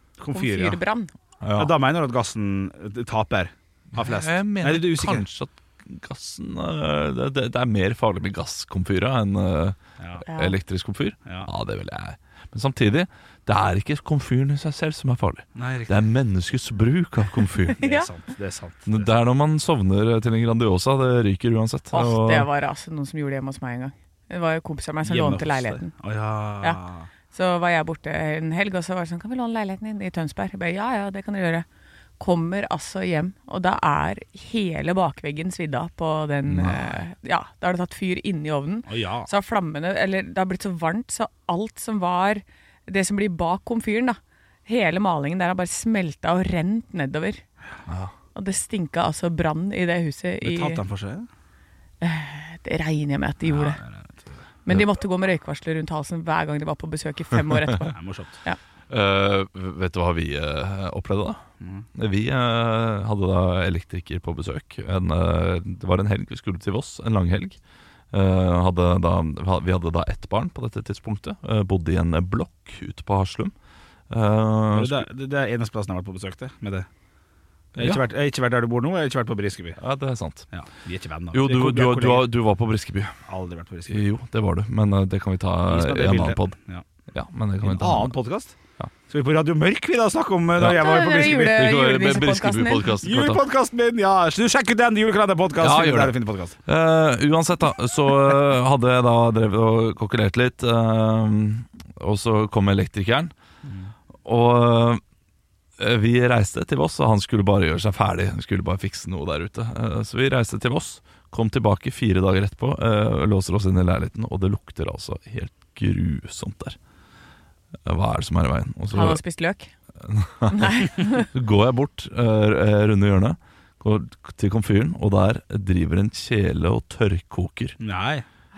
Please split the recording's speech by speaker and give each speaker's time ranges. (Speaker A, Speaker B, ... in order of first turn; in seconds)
Speaker A: 0.2-0.8, 1.6-5.2, 15.6-16.0, 17.8-19.1, 25.0-27.1, 38.9-39.3, 50.4-51.3, 53.5-54.4, 58.0-58.4, 61.6-61.9, 74.7-76.9, 77.8-79.8, 80.5-82.3, 83.3-84.0, 85.7-86.8, 87.6-88.6, 89.1-91.6, 93.0-96.6, 127.8-128.3
Speaker B: 0.3-1.1, 10.3-10.6, 17.8-18.1, 21.9-25.9, 27.3-31.7, 32.2-47.4, 48.4-50.8, 52.0-53.8, 54.6-58.6, 90.6-92.9, 118.9-119.7, 120.5-121.3
Speaker C: 1.4-1.7, 4.0-17.8, 18.9-22.5, 36.5-36.9, 47.9-48.1, 58.9-61.4, 62.0-67.6, 68.1-73.5, 74.1-75.0, 79.8-80.5, 81.3-83.1, 83.9-86.6, 87.1-88.1, 90.6-93.4, 95.6-96.2, 96.7-103.3, 104.2-105.0, 105.8-116.8, 117.9-119.2, 120.0-127.8